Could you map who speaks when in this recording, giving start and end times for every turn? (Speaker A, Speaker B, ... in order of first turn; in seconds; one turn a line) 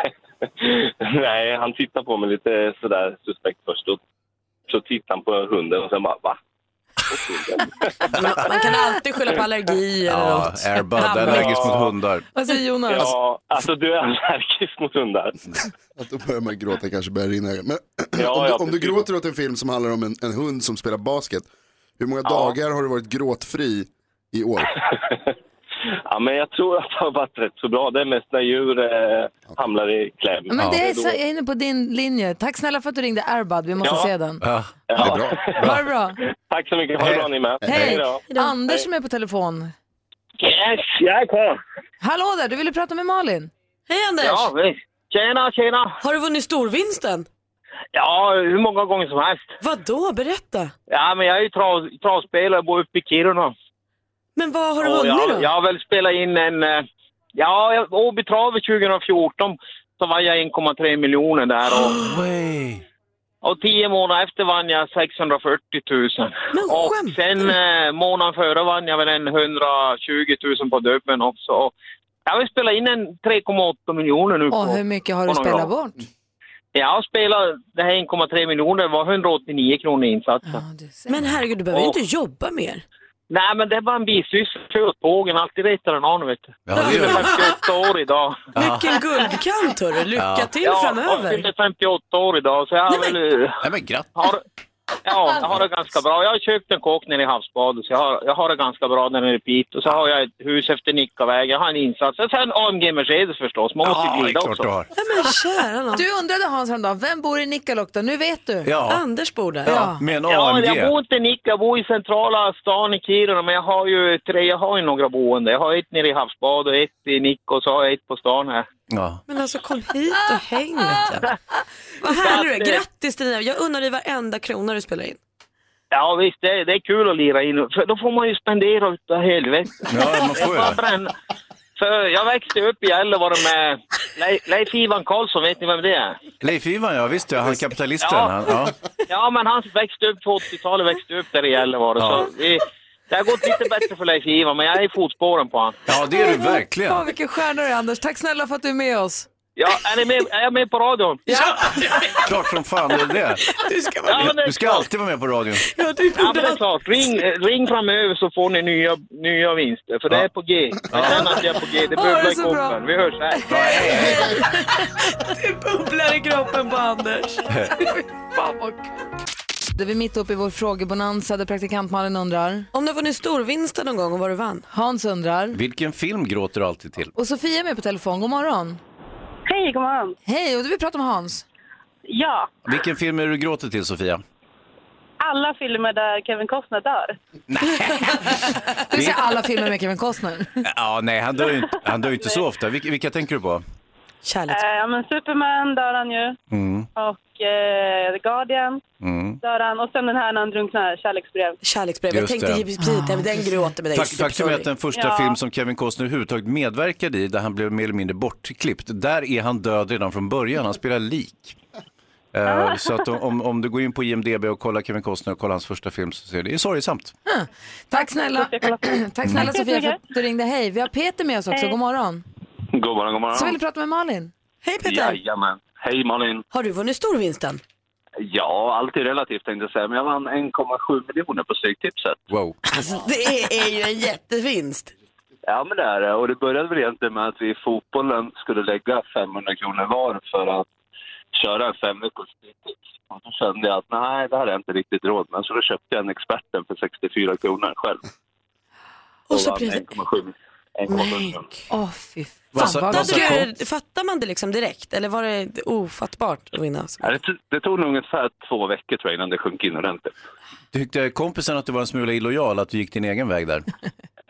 Speaker A: 0.6-4.0
Speaker A: 4.7-6.4
Speaker A: 7.1-7.7
Speaker B: 8.1-11.7
Speaker C: 10.1-12.3
Speaker D: 12.3-13.1
Speaker A: 12.9-15.4
Speaker E: 16.0-21.5
Speaker A: 18.2-19.1
Speaker E: 22.0-24.7
Speaker A: 22.2-22.6
Speaker A: 26.1-31.2
Speaker D: 30.5-34.4
Speaker C: 30.6-30.8
Speaker A: 33.8-34.1
Speaker C: 34.4-35.8
Speaker A: 34.9-35.6
Speaker D: 35.6-36.2
Speaker A: 36.5-38.2
Speaker C: 37.0-37.9
Speaker D: 37.6-39.7
Speaker B: 38.3-38.6
Speaker F: 40.4-41.0
Speaker D: 42.0-43.5
Speaker B: 43.9-44.5
Speaker F: 44.2-46.0
Speaker B: 46.0-47.3
Speaker F: 47.9-49.5
Speaker B: 49.6-50.7
Speaker F: 50.9-53.5
Speaker B: 54.4-55.5
Speaker F: 54.8-56.9
Speaker F: 57.4-62.0
Speaker C: 61.9-62.8
Speaker F: 63.4-71.7
Speaker B: 66.5-67.5
Speaker F: 72.3-75.7
Speaker D: 74.5-76.0
Speaker F: 76.8-80.6
Speaker D: 80.5-81.2
Speaker B: 81.1-82.8
Speaker F: 83.3-88.5
Speaker C: 86.7-87.3
Speaker B: 86.7-87.5
Speaker C: 88.5-88.9
Speaker B: 88.5-91.5
Speaker C: 90.2-90.5
Speaker F: 90.6-93.6
Speaker C: 93.6-94.1
Speaker F: 94.2-94.4
Speaker F: 95.0-104.7
Speaker C: 103.8-104.9
Speaker B: 104.9-106.0
Speaker D: 105.9-108.7
Speaker C: 108.7-109.0
Speaker B: 108.8-109.9
Speaker C: 109.6-110.9
Speaker D: 109.7-110.0
Speaker F: 110.3-118.7
Speaker C: 118.9-119.2
Speaker B: 119.3-121.3
Speaker B: 122.0-125.2
Speaker F: 122.1-122.8
Speaker F: 125.9-131.1
Speaker C: 129.9-130.8
Speaker F: 131.8-136.2
Speaker C: 136.4-138.8
Speaker F: 138.0-138.4
Speaker F: 139.1-145.8
Speaker C: 142.0-142.3
Speaker C: 145.9-147.1
Speaker D: 146.2-149.3
Speaker F: 149.6-151.2
Speaker B: 151.3-154.4
Speaker C: 152.2-153.4
Speaker F: 154.1-154.9
Speaker C: 154.2-155.7
Speaker B: 155.6-156.6
Speaker F: 156.2-163.5
Speaker C: 160.9-161.4
Speaker D: 161.9-162.8
Speaker D: 163.3-164.3
Speaker C: 163.5-164.3
Speaker B: 163.6-167.5
Speaker B: 168.4-168.7
Speaker D: 169.8-172.7
Speaker B: 172.7-174.7
Speaker D: 174.7-175.6
Speaker C: 175.5-177.1
Speaker D: 177.2-178.8
Speaker G: 179.5-180.2
Speaker D: 180.2-181.4
Speaker G: 182.1-182.5
Speaker C: 182.7-184.2
Speaker G: 185.2-187.2
Speaker C: 187.5-189.3
Speaker D: 188.9-190.6
Speaker C: 190.6-193.6
Speaker B: 194.2-194.6
Speaker G: 194.5-196.4
Speaker C: 196.5-196.9
Speaker G: 197.0-198.8
Speaker C: 199.0-199.4
Speaker G: 199.4-201.6
Speaker B: 201.6-204.7
Speaker C: 202.1-202.7
Speaker D: 202.8-203.5
Speaker C: 203.9-211.6
Speaker G: 204.9-205.4
Speaker C: 212.3-217.1
Speaker G: 212.5-213.0
Speaker D: 217.3-222.2
Speaker G: 217.9-220.0
Speaker A: 222.7-223.6
Speaker D: 223.3-224.3
Speaker B: 224.6-225.2
Speaker A: 224.8-226.4
Speaker B: 226.5-227.6
Speaker A: 228.3-232.3
Speaker C: 232.3-232.6
Speaker B: 232.7-234.9
Speaker A: 235.5-240.7
Speaker A: 241.4-248.0
Speaker B: 249.3-249.9
Speaker A: 249.3-251.5
Speaker B: 250.9-251.4
Speaker D: 251.7-253.5
Speaker C: 252.5-253.5
Speaker B: 252.6-257.1
Speaker A: 257.0-260.1
Speaker C: 260.7-263.7